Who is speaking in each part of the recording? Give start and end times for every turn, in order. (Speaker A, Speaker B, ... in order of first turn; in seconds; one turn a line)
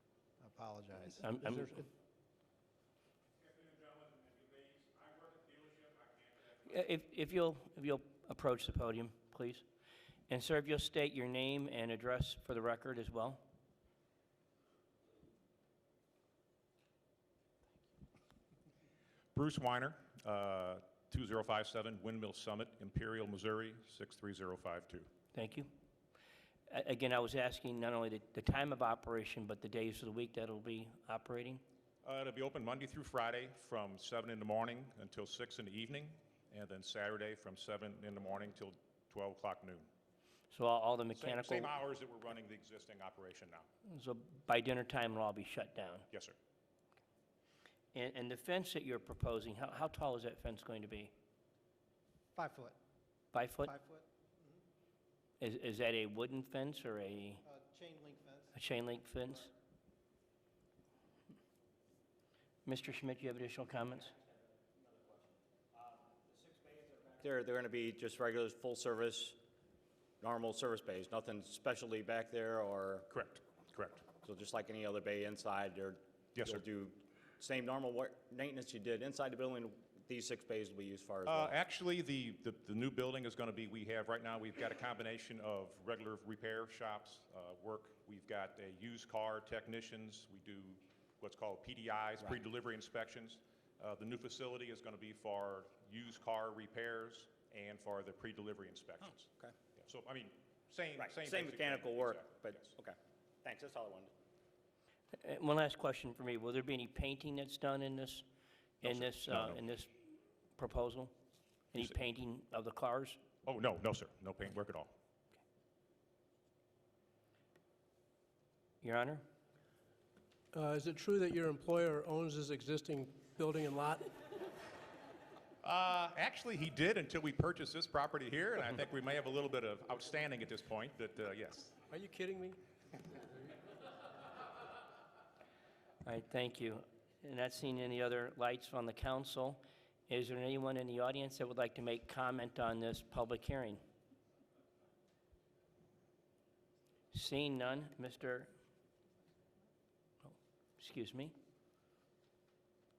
Speaker A: 0.4-1.8
Speaker B: 1.2-1.8
Speaker C: 3.4-6.4
Speaker B: 6.7-9.6
Speaker B: 10.3-13.4
Speaker C: 19.3-25.1
Speaker B: 25.3-25.7
Speaker B: 26.7-31.6
Speaker C: 32.0-39.9
Speaker B: 40.5-41.7
Speaker C: 41.1-43.7
Speaker B: 43.9-46.0
Speaker B: 47.9-51.1
Speaker A: 52.3-52.8
Speaker B: 53.3-53.7
Speaker A: 53.6-54.1
Speaker B: 55.4-57.4
Speaker A: 57.4-58.5
Speaker B: 58.5-59.5
Speaker B: 62.6-64.1
Speaker D: 65.7-69.4
Speaker D: 70.2-73.1
Speaker C: 73.1-74.1
Speaker D: 74.2-81.6
Speaker C: 76.3-76.6
Speaker C: 81.3-99.3
Speaker C: 99.8-102.7
Speaker D: 101.0-104.1
Speaker B: 105.2-108.2
Speaker B: 108.8-110.0
Speaker C: 108.8-109.6
Speaker B: 110.5-111.1
Speaker B: 111.7-113.2
Speaker C: 113.4-114.9
Speaker B: 118.8-119.2
Speaker E: 120.5-124.2
Speaker C: 125.6-131.8
Speaker E: 131.9-132.6
Speaker B: 136.0-143.8
Speaker B: 147.1-148.5
Speaker B: 150.2-151.3